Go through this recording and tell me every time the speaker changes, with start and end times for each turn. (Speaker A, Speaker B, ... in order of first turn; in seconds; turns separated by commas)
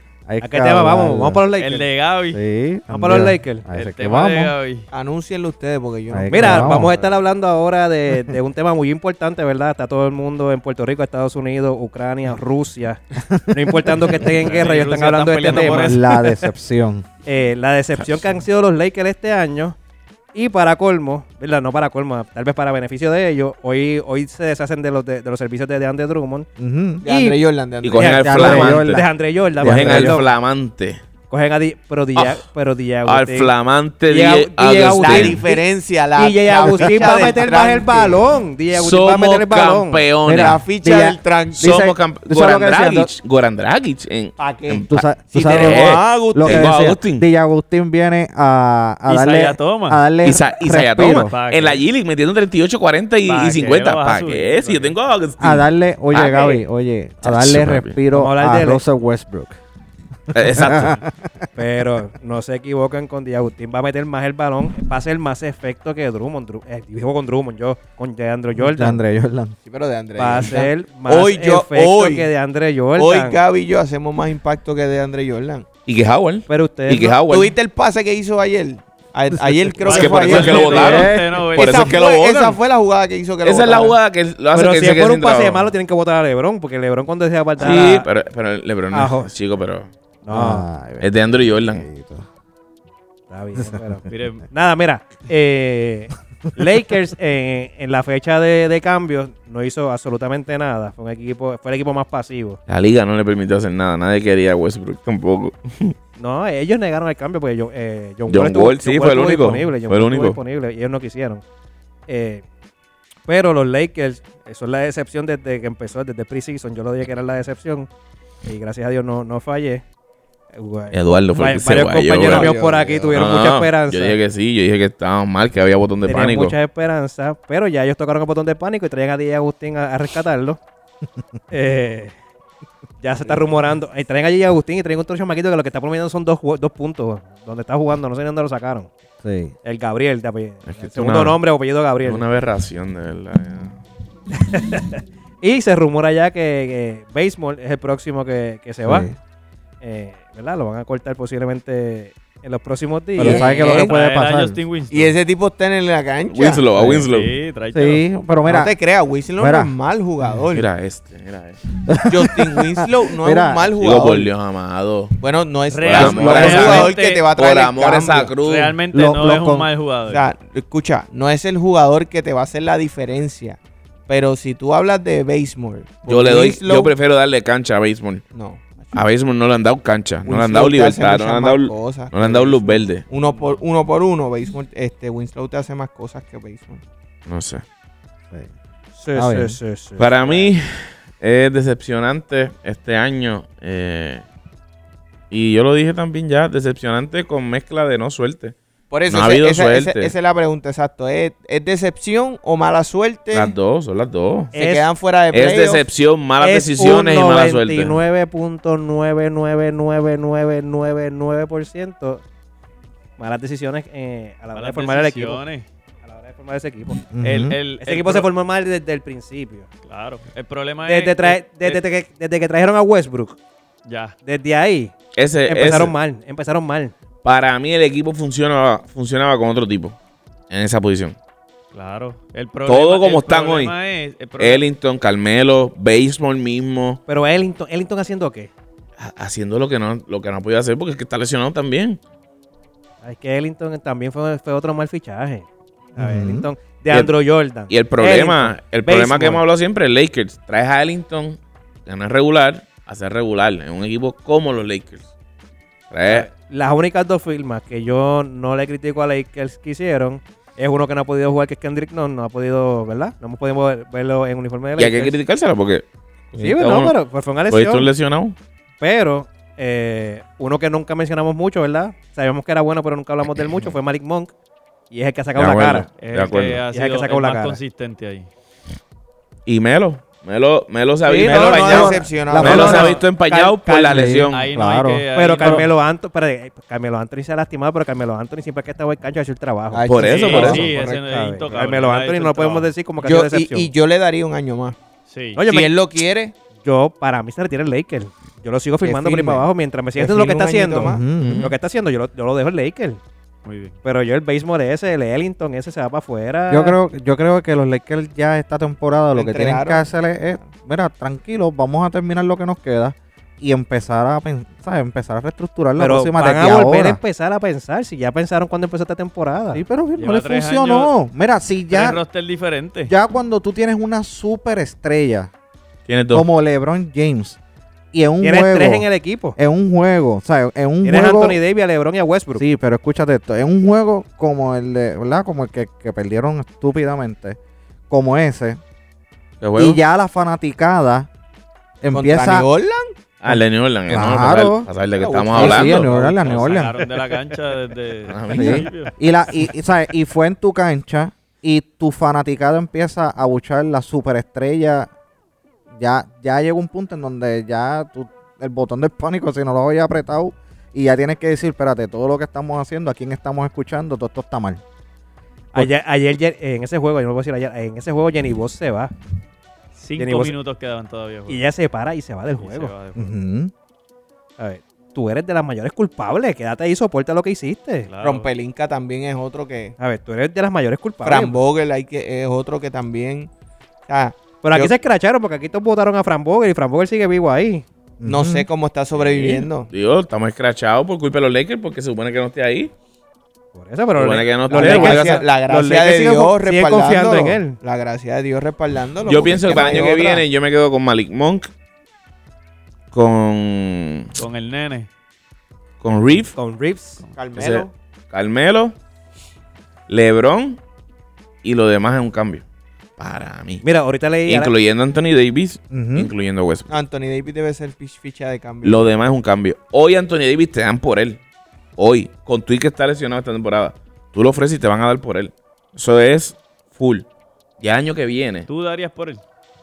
Speaker A: 0.3-1.4, Speaker B: 0.4-1.9, Speaker C: 1.6-2.4, Speaker A: 2.3-4.5, Speaker B: 2.9-3.7, Speaker C: 3.7-4.9, Speaker D: 4.9-7.1, Speaker A: 6.1-6.9, Speaker B: 6.3-16.3, Speaker A: 13.2-14.3, Speaker C: 14.4-16.1, Speaker A: 15.7-17.1, Speaker B: 17.2-19.8, Speaker B: 20.3-26.5, Speaker A: 26.6-27.0, Speaker D: 27.0-28.6, Speaker B: 27.0-27.4, Speaker E: 27.8-29.1, Speaker B: 28.0-30.3, Speaker A: 28.2-29.1, Speaker E: 29.6-31.0, Speaker A: 29.6-30.2, Speaker B: 31.3-33.5, Speaker E: 32.1-32.4, Speaker E: 33.0-35.4, Speaker B: 34.0-35.6, Speaker D: 34.9-38.3, Speaker B: 36.1-40.1, Speaker E: 38.7-40.6, Speaker A: 40.2-43.1, Speaker D: 40.3-41.8, Speaker E: 41.6-47.2, Speaker D: 44.4-46.8, Speaker A: 44.9-51.3, Speaker C: 49.1-50.0, Speaker E: 50.2-56.6, Speaker C: 51.0-51.8, Speaker C: 53.2-55.0, Speaker A: 55.4-59.6, Speaker E: 57.2-58.0, Speaker B: 58.1-58.8, Speaker A: 60.3-61.5, Speaker E: 60.3-61.0, Speaker B: 61.5-69.0, Speaker A: 68.5-69.5, Speaker D: 69.6-72.3, Speaker B: 70.2-73.4, Speaker D: 73.0-75.7, Speaker E: 75.8-77.5, Speaker B: 76.5-77.2, Speaker D: 77.3-84.0, Speaker A: 79.5-79.7, Speaker E: 79.8-82.6, Speaker C: 79.8-82.0, Speaker A: 80.5-81.5, Speaker E: 83.4-85.7, Speaker B: 84.5-88.1, Speaker E: 87.6-89.9, Speaker B: 88.9-89.3, Speaker B: 90.2-90.7, Speaker A: 90.3-92.2, Speaker E: 91.0-91.8, Speaker B: 93.3-102.6, Speaker A: 93.6-94.0, Speaker C: 94.1-94.5, Speaker E: 102.7-106.0, Speaker B: 106.2-111.4, Speaker E: 108.3-110.4, Speaker B: 112.1-112.4, Speaker B: 113.2-117.9, Speaker B: 118.4-119.8, Speaker B: 120.5-124.2, Speaker E: 120.9-122.5, Speaker D: 122.2-123.2, Speaker E: 123.1-126.5, Speaker B: 126.0-130.6, Speaker B: 131.5-132.1, Speaker B: 133.0-138.9, Speaker A: 139.2-139.5, Speaker B: 139.6-142.2, Speaker E: 140.7-141.4, Speaker E: 142.0-143.8, Speaker B: 144.3-149.1, Speaker A: 148.8-149.1, Speaker B: 149.8-153.7, Speaker A: 153.2-154.6, Speaker D: 153.2-153.9, Speaker C: 153.2-155.1, Speaker D: 154.9-156.7, Speaker E: 156.3-157.3, Speaker A: 156.7-157.1, Speaker C: 156.9-158.0, Speaker A: 157.7-158.7, Speaker D: 158.4-160.7, Speaker A: 159.4-159.7, Speaker E: 160.5-161.6, Speaker A: 161.8-163.7, Speaker D: 162.1-164.3, Speaker E: 163.8-165.2, Speaker D: 165.2-168.3, Speaker C: 165.7-167.3, Speaker E: 165.9-168.8, Speaker A: 166.2-166.7, Speaker C: 168.4-170.2, Speaker A: 168.9-169.7, Speaker D: 170.1-176.9, Speaker E: 176.1-178.2, Speaker D: 178.3-179.0, Speaker E: 178.9-183.0, Speaker D: 180.2-186.8, Speaker C: 183.2-183.6, Speaker E: 187.3-187.6, Speaker B: 188.9-190.5, Speaker A: 189.1-189.6, Speaker E: 190.0-194.2, Speaker E: 195.3-198.5, Speaker D: 198.9-203.6, Speaker E: 199.1-200.1, Speaker E: 203.3-204.5, Speaker B: 204.5-204.9, Speaker D: 204.5-205.8, Speaker E: 205.3-208.0, Speaker B: 206.4-212.2, Speaker B: 213.2-215.4, Speaker C: 214.5-215.7, Speaker B: 216.0-217.1, Speaker A: 217.1-217.6, Speaker C: 217.2-218.3, Speaker B: 217.7-219.7, Speaker C: 219.8-221.8, Speaker B: 220.8-223.4, Speaker C: 223.8-224.1, Speaker B: 224.2-224.9, Speaker E: 225.1-225.9, Speaker B: 225.4-226.9, Speaker E: 227.2-229.9, Speaker E: 230.5-231.2, Speaker C: 231.7-234.6, Speaker E: 232.7-233.7, Speaker E: 234.4-237.0, Speaker B: 237.1-238.5, Speaker E: 239.0-242.0, Speaker B: 243.0-249.4, Speaker A: 246.0-246.5, Speaker E: 247.7-255.1, Speaker E: 255.9-256.3, Speaker B: 256.1-265.2, Speaker E: 264.8-268.4, Speaker B: 266.4-267.9, Speaker B: 268.8-274.3, Speaker B: 274.9-276.1, Speaker E: 275.3-276.6, Speaker C: 276.0-278.3, Speaker B: 276.7-277.6, Speaker E: 279.4-284.4, Speaker B: 281.1-284.1, Speaker D: 281.1-282.9, Speaker A: 281.7-285.7, Speaker C: 284.3-285.7, Speaker B: 285.1-293.7, Speaker D: 289.7-291.0, Speaker E: 289.9-290.6, Speaker C: 290.0-292.7, Speaker D: 293.0-294.8, Speaker C: 295.1-295.4, Speaker B: 295.3-295.7, Speaker D: 295.4-296.3, Speaker B: 296.6-303.0, Speaker D: 298.8-301.0, Speaker A: 300.9-301.5, Speaker E: 301.2-301.6, Speaker C: 303.4-303.8, Speaker B: 303.8-306.8, Speaker A: 306.5-317.0, Speaker D: 309.1-309.9, Speaker B: 315.8-319.6, Speaker A: 319.5-322.0, Speaker C: 320.0-320.9, Speaker C: 321.7-322.9, Speaker A: 322.9-325.3, Speaker E: 325.9-326.2, Speaker A: 326.1-327.4, Speaker A: 327.9-331.4, Speaker B: 328.2-329.4, Speaker B: 330.8-332.5, Speaker A: 332.4-337.4, Speaker A: 337.9-338.6, Speaker E: 339.4-339.8, Speaker A: 339.6-341.1, Speaker A: 341.8-342.4, Speaker D: 341.9-342.9, Speaker E: 343.2-345.9, Speaker A: 343.2-344.7, Speaker D: 344.9-346.4, Speaker A: 345.3-346.8, Speaker C: 346.2-348.9, Speaker E: 348.1-348.7, Speaker A: 348.3-354.9, Speaker A: 355.7-364.6, Speaker B: 365.5-368.9, Speaker C: 369.8-371.4, Speaker B: 370.0-370.4, Speaker B: 371.3-372.7, Speaker C: 372.4-373.1, Speaker A: 372.9-373.5, Speaker B: 374.4-377.9, Speaker C: 377.9-378.3, Speaker D: 378.0-379.8, Speaker B: 379.8-381.4, Speaker D: 381.0-383.3, Speaker D: 383.9-384.7, Speaker B: 384.4-387.6, Speaker A: 388.0-388.4, Speaker D: 388.0-389.7, Speaker E: 389.0-392.7, Speaker B: 393.5-397.6, Speaker E: 393.9-395.2, Speaker D: 394.5-400.2, Speaker E: 399.0-401.5, Speaker E: 402.9-404.1, Speaker C: 404.1-404.9, Speaker E: 405.8-406.4, Speaker B: 406.3-407.0, Speaker D: 407.1-407.7, Speaker E: 407.4-408.7, Speaker E: 409.9-410.6, Speaker E: 411.4-412.4, Speaker E: 413.0-413.6, Speaker B: 413.6-414.5, Speaker E: 414.2-416.7, Speaker A: 415.7-416.1, Speaker D: 416.7-418.9, Speaker E: 418.6-421.2, Speaker E: 421.8-427.1, Speaker E: 427.6-428.5, Speaker C: 428.5-429.2